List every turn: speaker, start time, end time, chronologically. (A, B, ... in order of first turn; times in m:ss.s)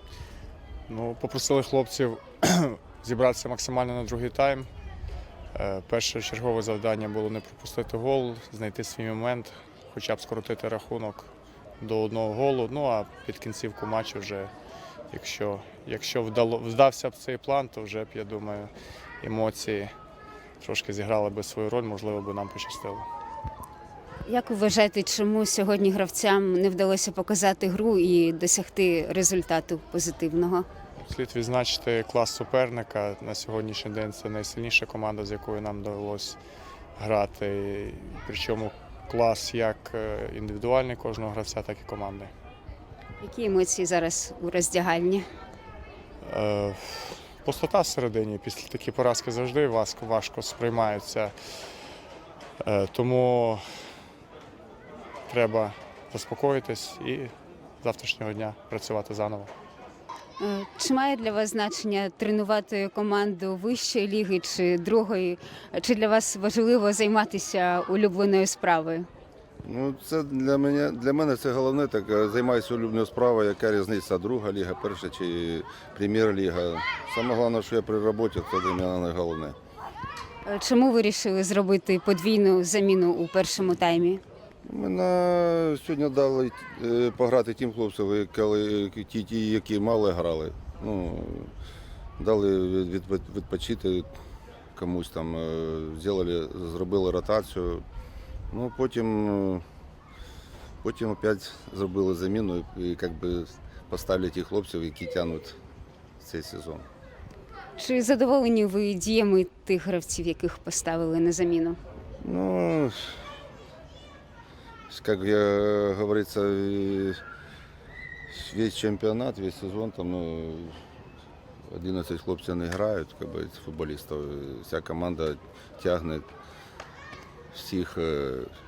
0:00.9-0:04.7 A
0:05.5-0:14.5 A
0:15.1-0:19.9 A
0:20.6-0:23.1 A
0:24.2-0:30.6 B
0:31.0-0:36.4 A
0:37.0-0:42.3 A
0:43.2-0:45.2 B
0:46.2-0:51.3 A
0:52.6-0:53.6 A
0:55.3-0:59.5 A
1:00.4-1:09.1 B
1:09.6-1:19.6 C
1:20.4-1:24.2 B
1:24.6-1:31.5 C
1:32.2-1:34.1 C
1:34.7-1:37.8 C
1:38.5-1:39.6 C
1:40.8-1:45.6 C
1:46.2-1:46.9 C
1:47.8-1:51.8 B
1:52.2-1:53.2 C
1:54.9-1:57.2 C
1:58.3-2:00.8 C
2:01.7-2:06.3 C
2:07.5-2:08.5 C